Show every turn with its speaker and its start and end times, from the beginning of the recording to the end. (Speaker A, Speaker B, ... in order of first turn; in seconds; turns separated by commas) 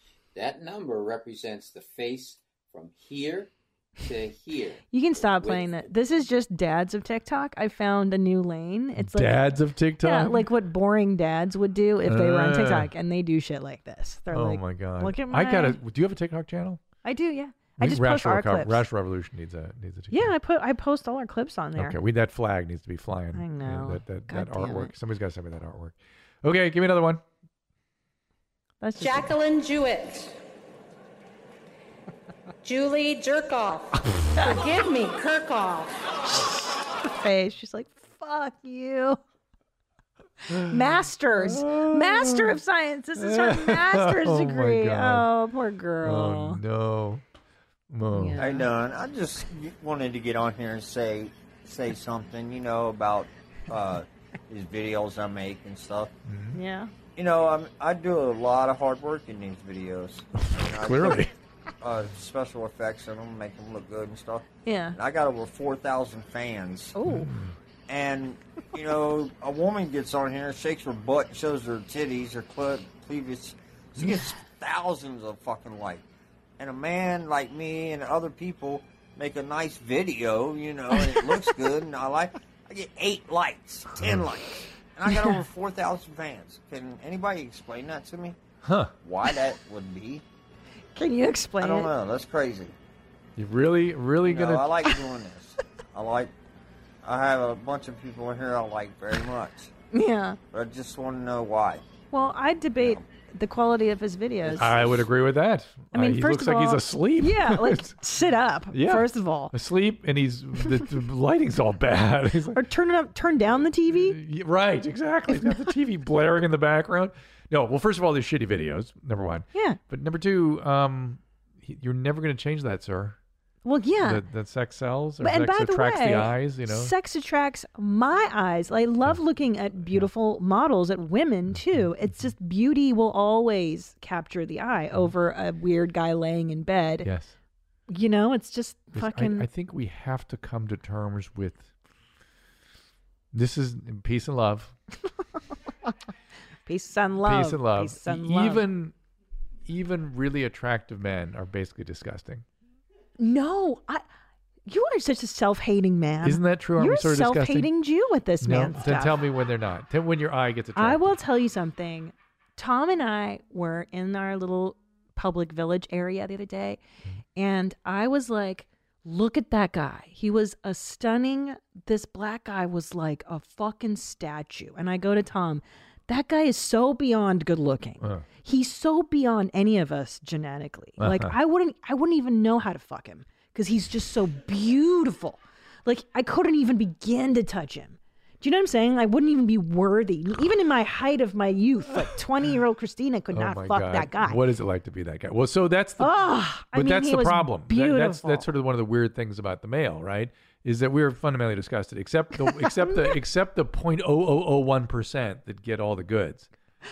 Speaker A: 0.3-5.9, Speaker B: 4.9-9.4, Speaker C: 9.0-10.5, Speaker B: 10.0-15.8, Speaker C: 12.1-12.9, Speaker C: 14.3-16.8, Speaker B: 17.0-18.8, Speaker C: 17.8-20.3, Speaker B: 20.1-22.0, Speaker C: 21.8-27.2, Speaker B: 23.3-24.9, Speaker B: 28.8-29.4, Speaker D: 29.0-30.4, Speaker D: 32.6-35.9, Speaker B: 34.4-34.6, Speaker B: 37.0-39.2, Speaker C: 40.5-40.8, Speaker B: 40.5-46.6, Speaker C: 41.4-42.6, Speaker C: 43.2-45.3, Speaker C: 46.0-47.2, Speaker C: 47.9-48.4, Speaker B: 48.1-48.7, Speaker E: 48.4-56.1, Speaker C: 56.3-56.6, Speaker B: 56.5-56.9, Speaker E: 57.2-61.3, Speaker C: 60.4-61.3, Speaker E: 61.8-67.0, Speaker B: 64.7-65.0, Speaker B: 67.0-67.3, Speaker C: 67.0-67.6, Speaker E: 67.9-76.0, Speaker E: 76.6-88.4, Speaker C: 88.6-88.9, Speaker E: 89.0-90.2, Speaker B: 91.0-91.9, Speaker E: 91.6-92.7, Speaker C: 93.4-94.7, Speaker E: 94.2-96.3, Speaker E: 97.0-99.7, Speaker B: 99.9-100.4, Speaker E: 100.5-101.8, Speaker B: 102.1-104.9, Speaker E: 102.8-103.0, Speaker E: 104.5-105.0, Speaker C: 104.6-107.9, Speaker B: 105.9-109.5, Speaker C: 108.7-112.6, Speaker B: 112.5-114.2, Speaker C: 113.9-123.2, Speaker B: 115.4-115.7, Speaker B: 119.5-119.8, Speaker B: 123.7-124.2, Speaker C: 124.0-126.9, Speaker B: 125.2-137.1, Speaker C: 131.5-132.3, Speaker C: 137.0-137.3, Speaker B: 137.9-139.5, Speaker C: 138.9-141.7, Speaker C: 143.3-144.8, Speaker B: 146.7-148.6, Speaker C: 147.2-148.9, Speaker C: 149.7-152.4, Speaker B: 153.2-154.1, Speaker B: 154.7-159.2, Speaker C: 156.2-157.7, Speaker C: 158.4-161.2, Speaker B: 160.8-166.8, Speaker B: 167.4-194.4, Speaker C: 181.0-181.3, Speaker C: 193.3-206.5, Speaker B: 196.0-198.5, Speaker B: 202.4-203.2